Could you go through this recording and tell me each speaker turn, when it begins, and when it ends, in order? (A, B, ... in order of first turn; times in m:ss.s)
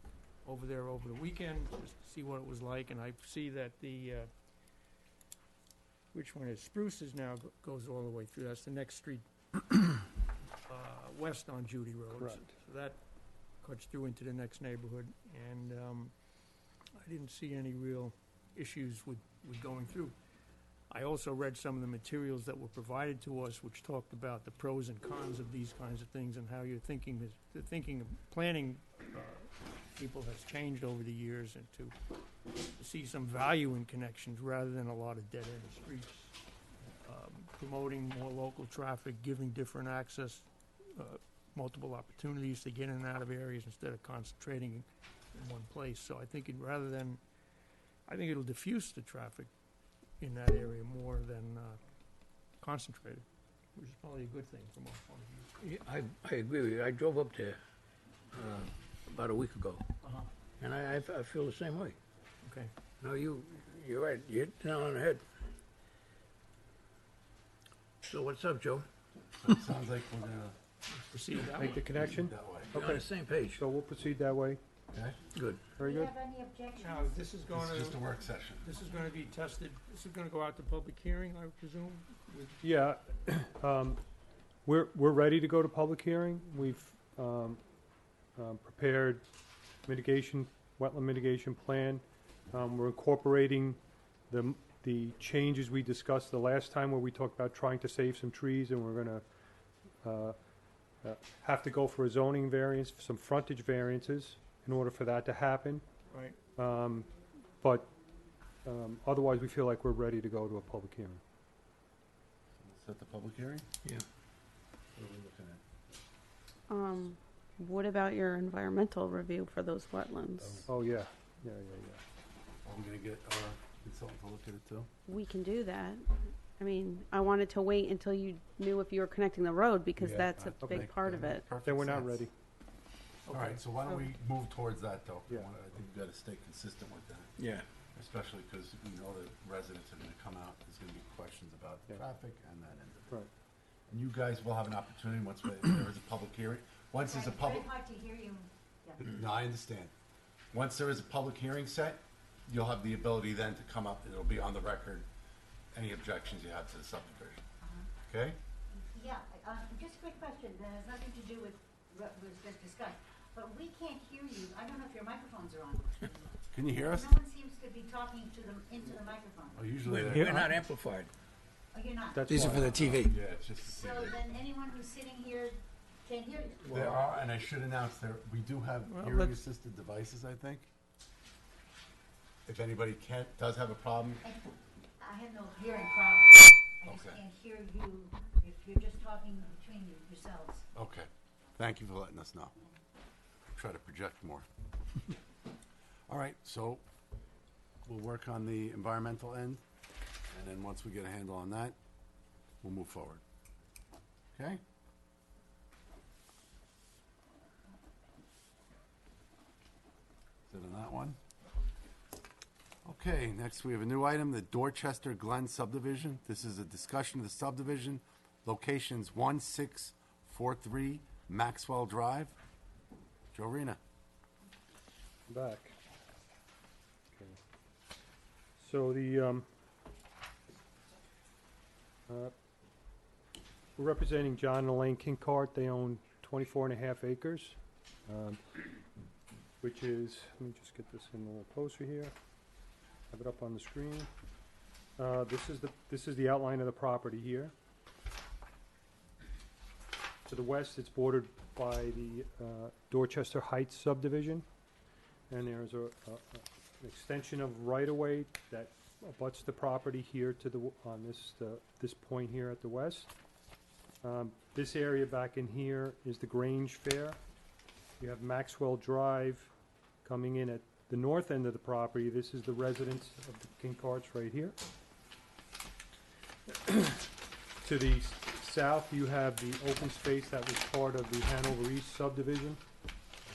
0:00.4-0:04.3 A
0:06.1-0:09.8 A
0:10.7-0:13.0 A
0:12.1-0:12.5 B
0:13.6-0:16.1 A
0:17.0-0:20.2 A
0:20.9-0:31.9 A
0:32.8-0:36.3 A
0:37.0-0:47.2 A
0:48.1-0:49.5 A
0:50.2-0:51.8 A
0:52.6-0:55.5 A
0:55.6-0:57.6 C
0:58.3-0:59.8 C
1:00.0-1:00.3 A
1:00.6-1:02.0 C
1:02.4-1:02.7 A
1:03.0-1:05.2 C
1:08.0-1:08.9 C
1:09.4-1:10.6 D
1:11.1-1:11.9 A
1:11.6-1:14.6 B
1:12.1-1:12.7 D
1:12.7-1:13.6 C
1:14.9-1:15.2 D
1:15.3-1:15.7 C
1:15.8-1:16.1 B
1:15.8-1:17.2 E
1:16.8-1:22.6 A
1:17.5-1:18.7 D
1:22.6-1:24.0 B
1:24.6-1:27.6 B
1:28.4-1:29.2 B
1:29.9-1:39.2 B
1:40.0-1:40.4 B
1:41.0-1:45.8 B
1:46.1-1:46.4 A
1:46.6-1:47.1 B
1:47.6-1:47.9 B
1:48.6-1:51.2 B
1:52.6-1:53.7 D
1:54.9-1:55.6 D
1:56.7-2:00.6 F
2:00.4-2:00.7 D
2:00.7-2:02.0 B
2:02.6-2:04.9 D
2:05.0-2:11.4 F
2:10.0-2:12.2 D
2:10.6-2:10.9 B
2:11.6-2:12.3 B
2:13.3-2:14.0 A
2:13.3-2:17.4 D
2:17.4-2:17.6 C
2:18.0-2:23.2 D
2:23.9-2:27.7 D
2:27.1-2:29.0 E
2:29.0-2:29.9 D
2:30.5-2:35.1 D
2:35.7-2:37.4 D
2:37.6-2:37.9 E
2:38.0-2:38.4 D
2:38.7-2:49.7 E
2:46.5-2:47.2 D
2:49.5-2:50.5 D
2:49.8-2:51.1 C
2:51.7-2:52.9 E
2:52.1-2:52.7 B
2:52.3-2:53.1 C
2:52.6-2:54.2 D
2:53.6-2:56.7 E
2:56.6-2:57.0 C
2:56.7-3:00.7 D
2:58.9-2:59.4 A
3:02.5-3:04.2 D
3:04.2-3:10.7 E
3:06.9-3:07.2 D
3:10.8-3:12.6 D
3:13.5-3:14.5 D
3:16.1-3:16.8 D
3:17.8-3:19.6 D
3:20.3-3:21.8 D
3:22.6-3:23.2 D
3:24.3-3:24.6 D
3:30.5-3:31.2 D
3:32.8-3:42.4 D
3:43.3-3:43.8 D
3:45.3-3:45.7 B
3:47.1-3:47.4 B
3:48.6-3:49.5 B
3:52.1-3:52.3 B
3:53.8-3:57.6 B
3:58.1-3:58.6 B
3:59.6-4:02.1 B
4:03.1-4:04.1 B
4:05.0-4:07.5 B
4:10.3-4:14.4 B
4:15.3-4:23.1 B
4:24.0-4:27.2 B
4:28.0-4:29.5 B
4:30.0-4:34.6 B
4:36.5-4:37.1 B
4:37.6-4:42.6 B